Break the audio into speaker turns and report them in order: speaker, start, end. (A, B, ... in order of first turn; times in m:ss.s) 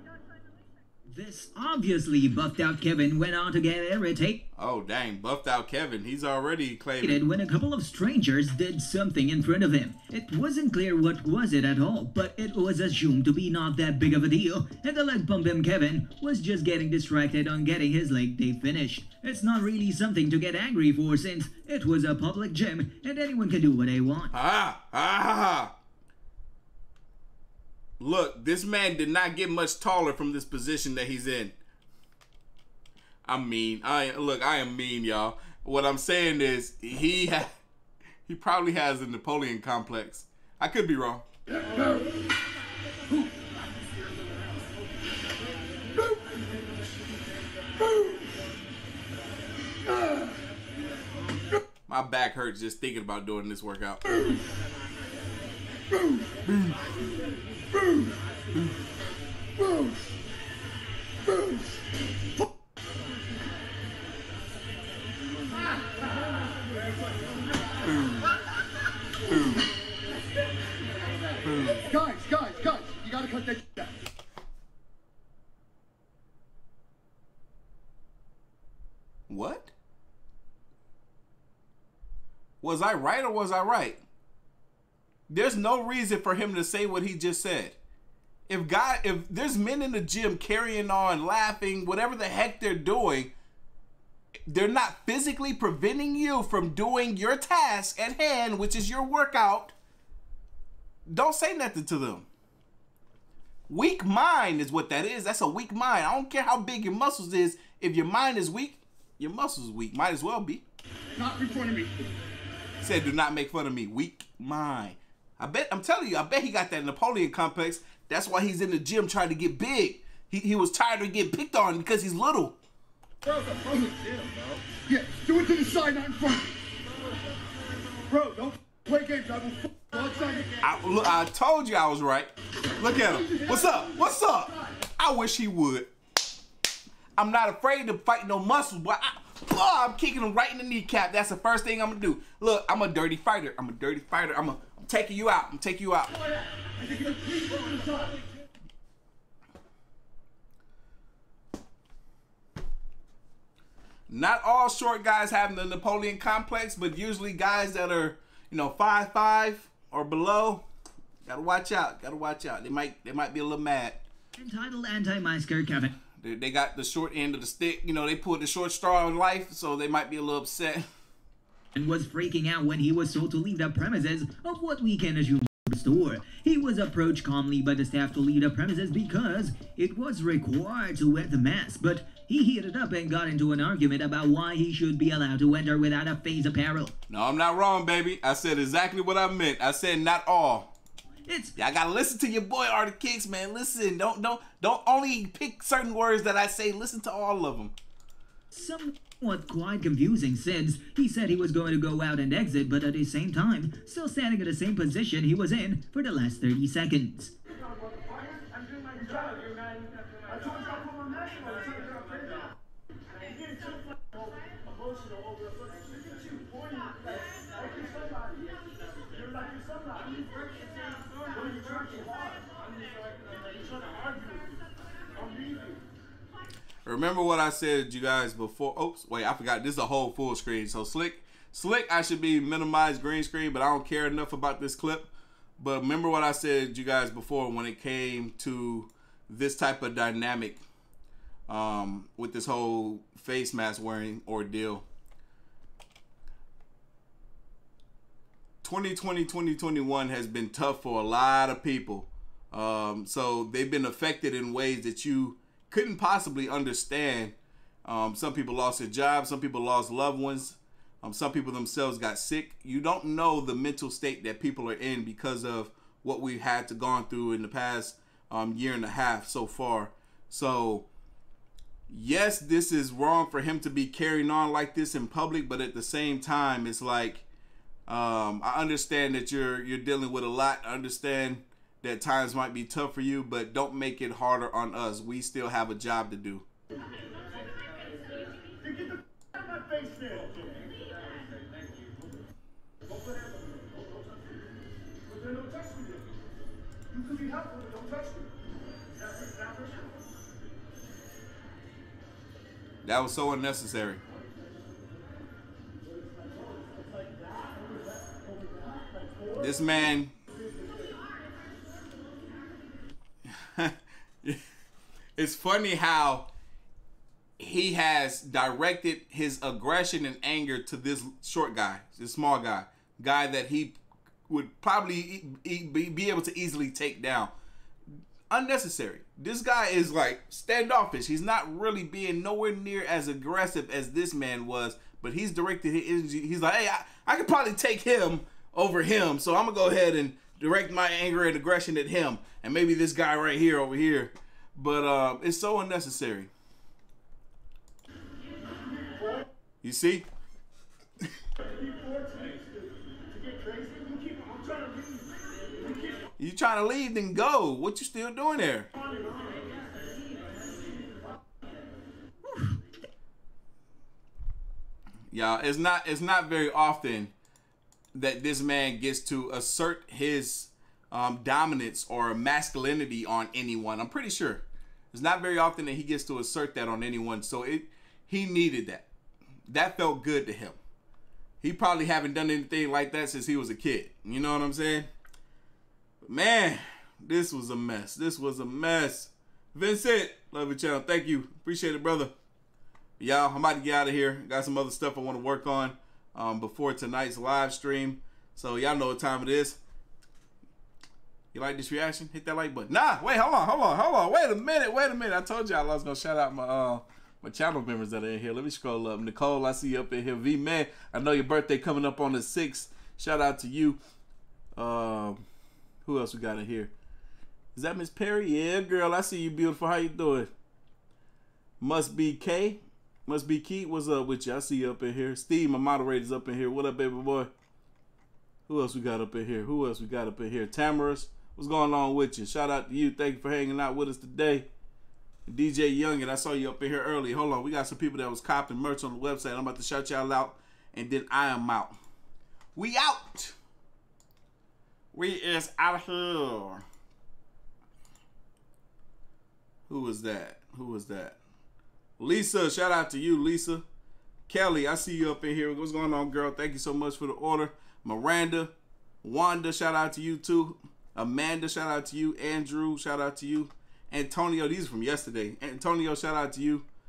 0:01.1-0:04.4 A
0:04.6-0:07.2 B
0:07.0-0:24.3 A
0:24.3-0:25.7 B
0:28.0-0:31.6 B
0:33.2-0:37.5 B
0:38.2-0:41.2 B
0:51.9-0:54.1 B
0:56.5-0:56.8 B
1:07.8-1:08.3 B
1:09.3-1:09.7 B
1:11.4-1:11.9 B
1:11.7-1:13.9 C
1:19.3-1:19.7 B
1:22.6-1:24.0 B
1:25.3-1:27.8 B
1:28.5-1:33.3 B
1:34.5-1:39.7 B
1:41.0-1:42.2 B
1:43.7-1:50.6 B
1:51.2-1:51.9 C
1:52.8-2:02.6 B
2:03.2-2:04.2 C
2:04.9-2:06.5 C
2:08.1-2:10.6 C
2:10.6-2:15.9 B
2:13.1-2:14.2 C
2:17.2-2:26.1 B
2:34.1-2:40.6 B
2:41.2-2:44.0 B
2:44.4-2:46.0 A
2:46.2-2:50.9 B
2:51.7-3:06.9 A
3:07.1-3:10.7 B
3:11.3-3:11.5 A
3:11.6-3:17.7 B
3:18.5-3:27.3 A
3:46.8-4:00.6 B
4:01.5-4:04.8 B
4:08.6-4:30.8 B
4:31.9-4:37.2 B
4:37.9-4:46.4 B
5:02.8-5:04.0 B
5:09.3-5:10.1 B
5:13.4-5:14.4 B
5:15.2-5:16.3 B
5:17.4-5:23.8 B
5:24.3-5:27.3 B
5:28.3-5:46.3 B
5:49.6-5:50.0 B
5:56.2-5:58.7 B
6:02.2-6:02.6 A
6:05.1-6:07.1 B
6:07.9-6:18.9 B
6:19.5-6:20.6 B
6:21.4-6:24.9 B
6:26.0-6:32.1 B
6:33.0-6:39.6 B
6:41.3-6:53.8 B
6:54.6-6:55.2 B
6:55.8-6:56.7 B
6:57.5-7:00.3 B
7:01.6-7:07.3 B
7:08.5-7:14.5 B
7:15.3-7:21.8 B
7:22.6-7:23.3 B
7:24.9-7:26.6 B
7:29.7-7:31.2 B
7:32.0-7:33.6 B
7:34.3-7:38.5 B
7:39.0-7:46.6 B